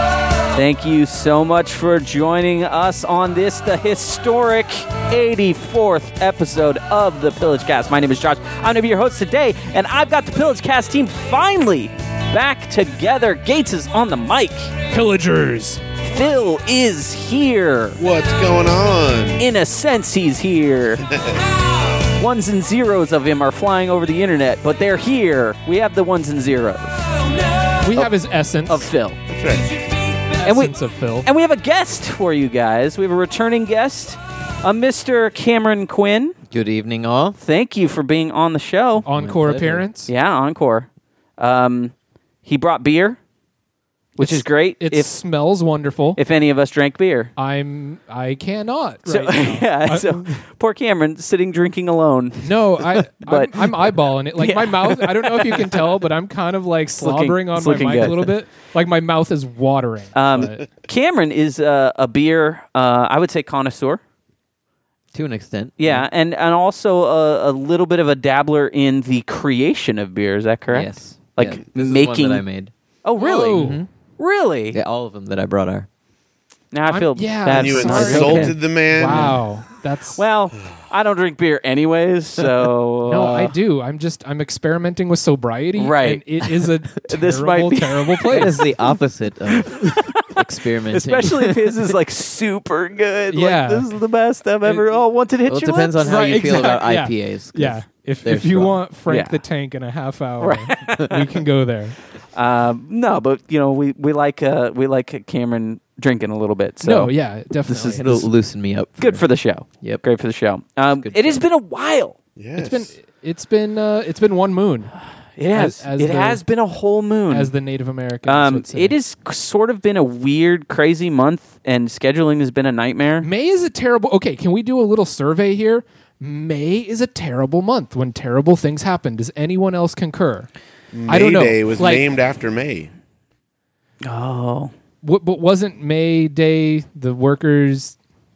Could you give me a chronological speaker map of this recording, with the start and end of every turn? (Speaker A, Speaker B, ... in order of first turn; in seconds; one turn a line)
Speaker A: 0.5-14.7
Speaker B: 14.9-15.8
Speaker A: 16.0-18.0
Speaker C: 18.0-19.4
Speaker A: 19.4-21.1
Speaker C: 21.1-21.4
Speaker A: 22.0-28.1
Speaker B: 27.8-28.9
Speaker A: 28.7-29.2
Speaker C: 29.3-29.7
Speaker A: 30.4-36.3
Speaker B: 30.4-31.3
Speaker D: 36.5-37.4
Speaker A: 37.4-39.0
Speaker D: 39.0-39.9
Speaker B: 39.0-40.1
Speaker A: 40.1-41.9
Speaker A: 42.5-43.2
Speaker A: 44.2-45.1
Speaker B: 44.2-46.2
Speaker A: 46.2-47.3
Speaker B: 47.4-50.4
Speaker A: 49.0-55.9
Speaker B: 52.4-60.6
Speaker A: 57.0-58.3
Speaker A: 60.1-64.0
Speaker D: 65.1-66.1
Speaker A: 65.8-72.4
Speaker D: 70.7-72.7
Speaker A: 73.0-74.8
Speaker B: 73.2-73.8
Speaker D: 73.5-73.9
Speaker D: 74.7-75.9
Speaker A: 76.7-78.5
Speaker B: 76.9-80.2
Speaker C: 77.5-79.4
Speaker D: 78.1-78.4
Speaker D: 79.1-79.3
Speaker A: 80.2-83.5
Speaker B: 83.1-88.6
Speaker A: 85.8-86.4
Speaker A: 87.0-88.6
Speaker D: 88.3-91.9
Speaker A: 89.5-96.8
Speaker B: 93.3-93.9
Speaker D: 95.5-98.8
Speaker B: 96.0-102.0
Speaker A: 99.1-99.4
Speaker A: 100.4-101.3
Speaker A: 102.3-107.1
Speaker B: 106.8-108.3
Speaker A: 107.7-108.0
Speaker D: 108.0-109.2
Speaker A: 109.0-112.1
Speaker D: 111.0-111.4
Speaker C: 112.4-112.9
Speaker B: 112.5-114.9
Speaker A: 115.4-117.5
Speaker B: 115.5-116.4
Speaker B: 117.3-119.0
Speaker A: 118.3-123.3
Speaker B: 123.2-130.5
Speaker C: 130.9-132.9
Speaker B: 131.1-132.0
Speaker A: 134.0-134.7
Speaker B: 135.0-138.0